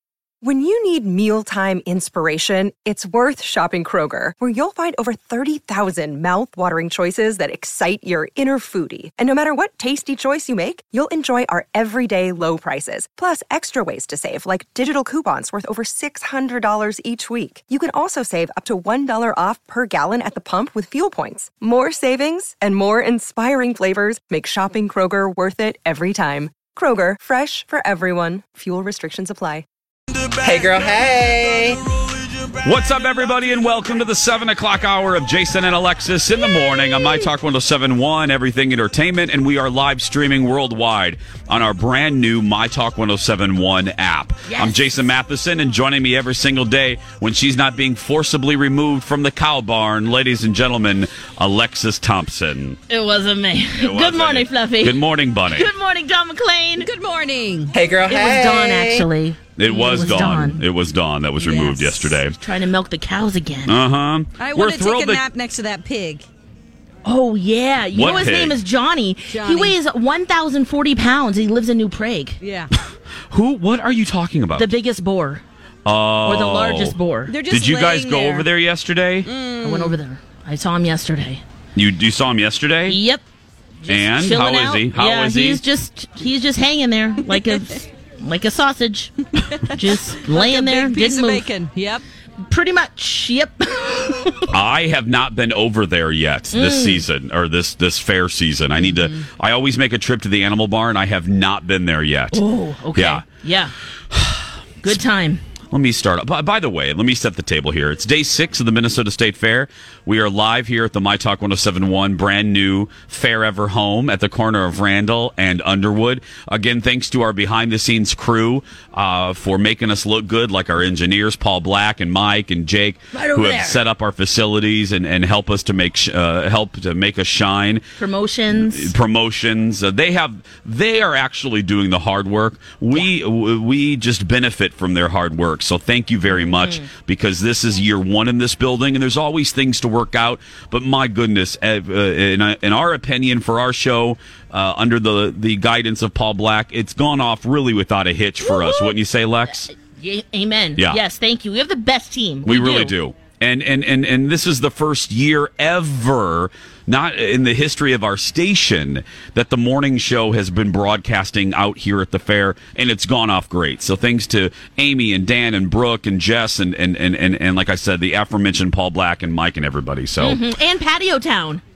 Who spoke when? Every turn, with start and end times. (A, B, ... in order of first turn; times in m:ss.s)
0:00.4-0:29.6 A
0:30.4-0:31.8 B
0:32.6-0:52.8 C
0:44.5-0:44.8 D
0:52.9-0:56.9 D
0:53.8-0:55.7 C
0:56.8-0:57.8 E
0:57.7-0:59.1 B
0:58.1-1:00.6 D
0:59.6-1:02.4 C
1:01.4-1:02.2 E
1:02.2-1:03.8 D
1:03.7-1:05.2 C
1:04.4-1:06.3 E
1:07.0-1:12.4 D
1:07.9-1:08.6 C
1:09.3-1:09.8 E
1:12.4-1:12.7 E
1:13.3-1:14.7 C
1:14.6-1:15.4 D
1:15.8-1:17.0 C
1:16.2-1:17.4 D
1:17.3-1:18.5 E
1:17.5-1:19.3 C
1:19.2-1:20.0 E
1:19.6-1:21.4 D
1:21.8-1:23.0 C
1:22.9-1:23.2 D
1:23.8-1:31.5 D
1:23.9-1:25.6 C
1:27.4-1:27.7 E
1:29.8-1:32.0 E
1:32.4-1:34.5 D
1:34.5-1:42.4 C
1:36.5-1:37.0 D
1:42.3-1:43.7 D
1:42.9-1:43.2 C
1:44.1-1:44.4 C
1:44.8-1:45.4 D
1:45.7-2:07.8 C
2:03.1-2:03.8 D
2:08.0-2:08.9 D
2:08.5-2:29.7 C
2:16.4-2:16.9 D
2:28.4-2:29.0 D
2:29.7-2:32.9 D
2:32.4-2:50.4 C
2:50.2-2:51.6 D